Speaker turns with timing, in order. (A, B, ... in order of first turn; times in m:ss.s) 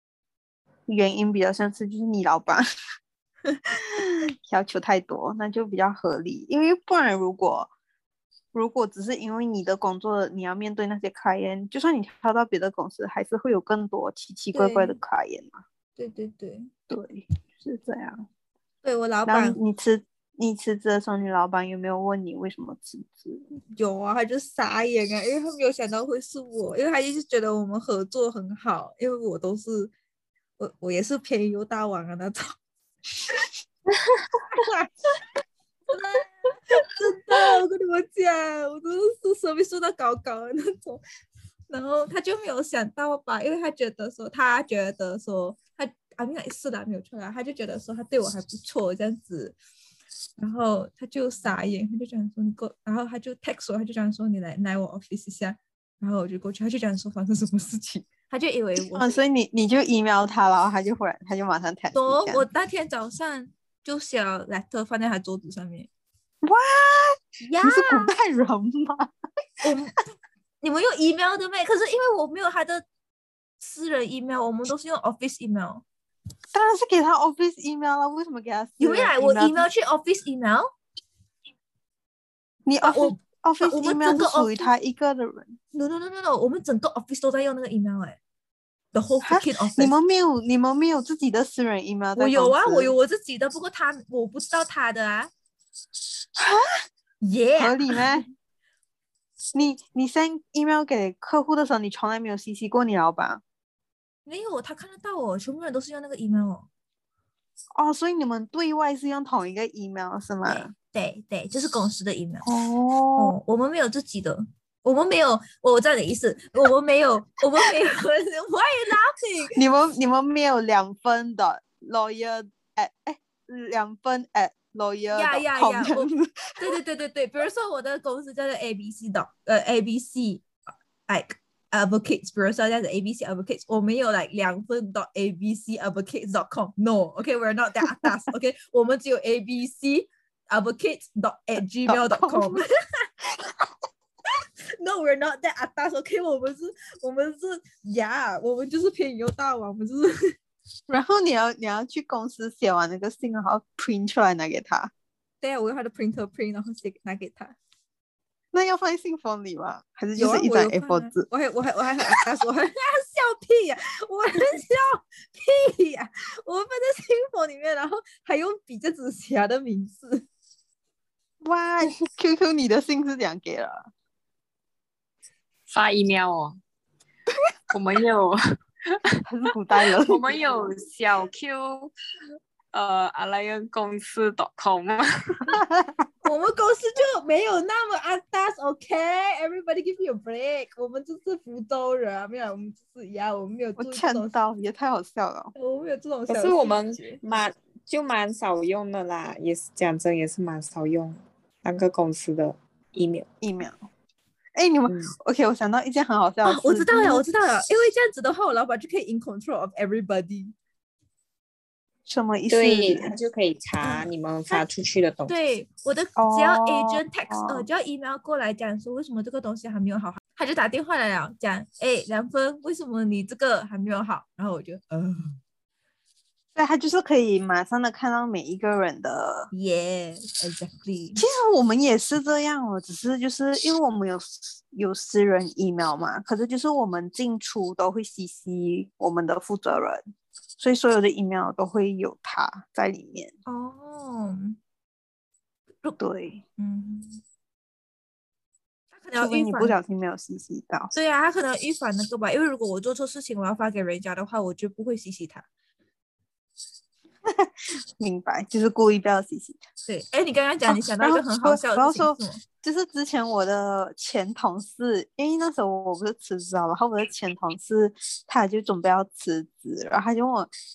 0:00.9-0:02.6 A
0:03.5-0:04.1 B
0:04.4-0:07.7 A
0:08.5-0:15.6 A
0:14.5-0:15.0 B
0:16.0-0:16.7 B
0:16.9-0:18.2 A
0:18.8-0:19.6 B
0:19.3-0:23.4 A
0:23.6-0:29.9 B
0:30.6-0:32.5 B
0:34.4-0:34.9 B
0:35.9-0:41.0 B
0:41.7-0:49.6 B
0:50.4-0:59.1 B
0:58.8-1:02.4 A
1:01.9-1:05.9 B
1:06.4-1:09.1 A
1:07.4-1:08.1 B
1:09.6-1:10.0 B
1:10.6-1:12.8 B
1:13.6-1:15.8 B
1:16.5-1:19.6 A
1:18.8-1:20.7 B
1:22.6-1:25.6 A
1:22.8-1:24.7 B
1:25.7-1:28.2 B
1:28.9-1:29.9 B
1:29.2-1:32.9 A
1:32.2-1:35.3 B
1:36.4-1:36.8 A
1:37.2-1:38.2 B
1:37.6-1:38.2 A
1:39.5-1:43.4 A
1:44.2-1:46.7 B
1:47.7-1:50.7 A
1:50.4-1:52.4 B
1:52.4-1:53.3 A
1:53.2-1:59.6 B
1:59.6-2:06.6 A
2:05.1-2:10.5 B
2:11.1-2:23.0 B
2:21.8-2:22.6 A
2:23.2-2:23.7 A
2:24.8-2:30.4 B
2:30.9-2:34.9 A
2:35.4-2:37.6 B
2:38.5-2:41.3 A
2:40.2-2:50.2 B
2:51.4-2:53.9 A
2:55.7-2:56.6 C
2:57.7-2:58.4 C
2:58.9-2:59.2 C
2:59.3-3:00.4 A
2:59.9-3:01.9 C
3:02.7-3:05.6 C
3:05.4-3:05.9 A
3:06.2-3:14.3 B
3:13.8-3:15.5 A
3:15.5-3:17.2 B
3:16.3-3:23.2 C
3:23.4-3:23.8 A
3:24.6-3:27.2 A
3:24.9-3:25.1 C
3:26.4-3:30.5 B
3:32.0-3:33.1 A
3:32.5-3:35.3 C
3:33.8-3:34.6 B
3:35.3-3:45.4 B
3:36.2-3:37.6 A
3:46.5-3:49.5 A
3:49.5-3:51.2 B
3:51.2-4:00.0 A
4:00.6-4:03.3 A
4:03.4-4:04.6 B
4:06.0-4:06.4 A
4:06.6-4:07.2 B
4:08.9-4:09.8 B
4:09.2-4:10.9 A
4:10.9-4:15.4 B
4:17.2-4:19.6 A
4:19.9-4:22.4 B
4:20.7-4:30.5 A